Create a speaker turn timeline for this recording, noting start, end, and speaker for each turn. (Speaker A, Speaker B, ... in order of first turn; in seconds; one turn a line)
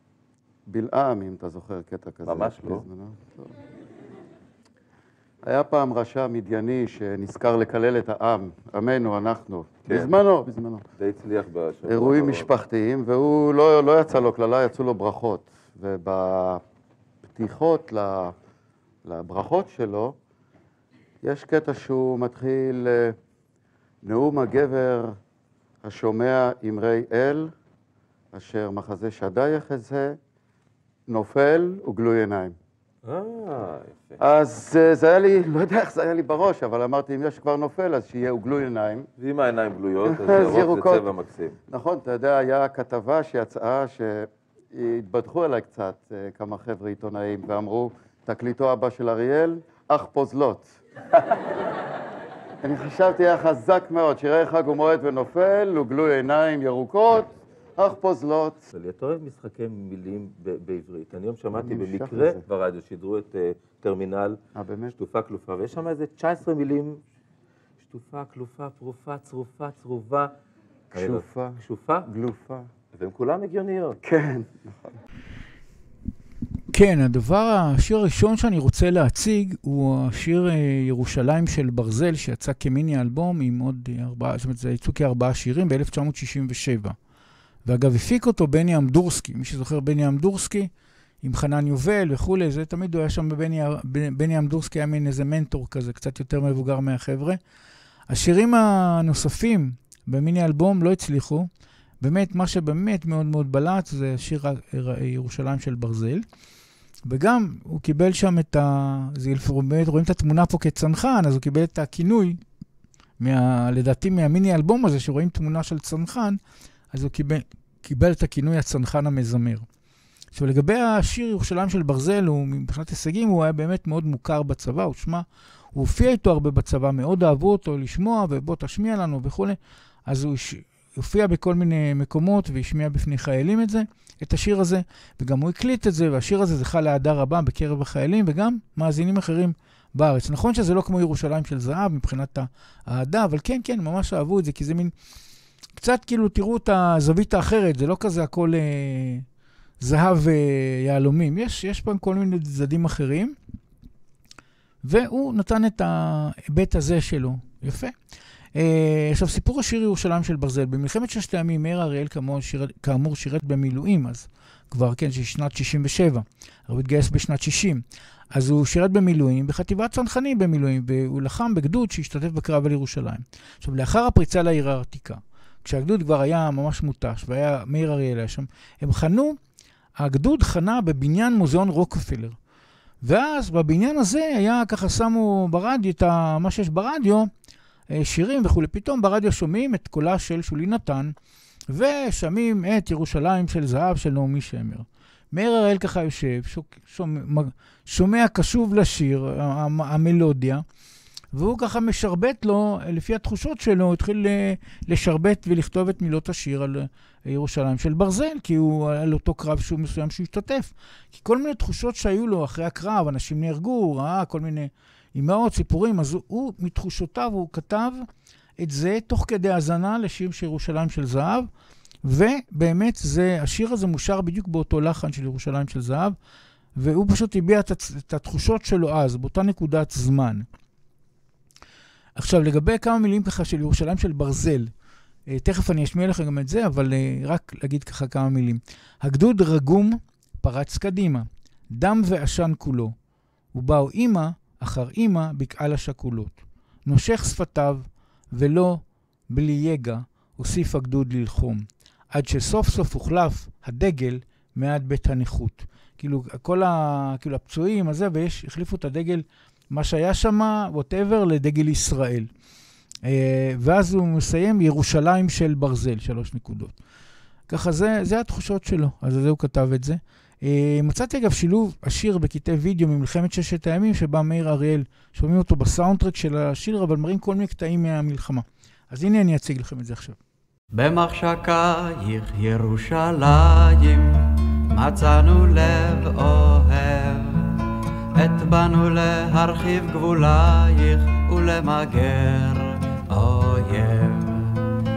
Speaker A: 0.7-3.5
Speaker B: 2.3-2.8
Speaker A: 5.4-10.8
Speaker B: 11.0-12.5
Speaker A: 11.8-16.6
Speaker A: 17.3-18.3
Speaker A: 19.0-20.1
Speaker A: 21.2-23.1
Speaker A: 24.0-25.2
Speaker A: 25.8-27.5
Speaker A: 28.3-30.2
Speaker A: 31.1-32.5
Speaker B: 33.0-34.2
Speaker A: 34.2-39.1
Speaker B: 39.2-41.5
Speaker A: 40.0-41.1
Speaker A: 41.7-50.6
Speaker A: 52.6-58.6
Speaker B: 58.7-64.4
Speaker A: 61.5-62.4
Speaker A: 64.5-64.9
Speaker B: 64.9-67.0
Speaker B: 67.8-70.3
Speaker A: 70.9-72.7
Speaker B: 70.9-72.0
Speaker B: 72.9-74.0
Speaker A: 74.0-74.9
Speaker C: 76.7-87.0
Speaker C: 87.7-90.7
Speaker C: 91.2-97.4
Speaker C: 98.1-101.5
Speaker C: 102.0-106.2
Speaker C: 107.1-112.4
Speaker C: 113.2-116.4
Speaker C: 116.9-119.7
Speaker C: 120.3-144.9
Speaker C: 145.8-149.2
Speaker C: 149.8-153.3
Speaker C: 154.8-157.9
Speaker C: 158.5-167.8
Speaker C: 168.3-179.4
Speaker C: 180.0-182.3
Speaker C: 183.0-187.3
Speaker C: 187.9-191.1
Speaker C: 191.7-200.6
Speaker C: 201.3-218.1
Speaker C: 218.6-221.5
Speaker C: 222.0-226.1
Speaker C: 226.8-230.4
Speaker C: 232.2-234.7
Speaker C: 235.3-242.9
Speaker C: 243.5-262.3
Speaker C: 263.1-266.7
Speaker C: 267.5-280.2
Speaker D: 280.7-287.6
Speaker D: 288.1-294.6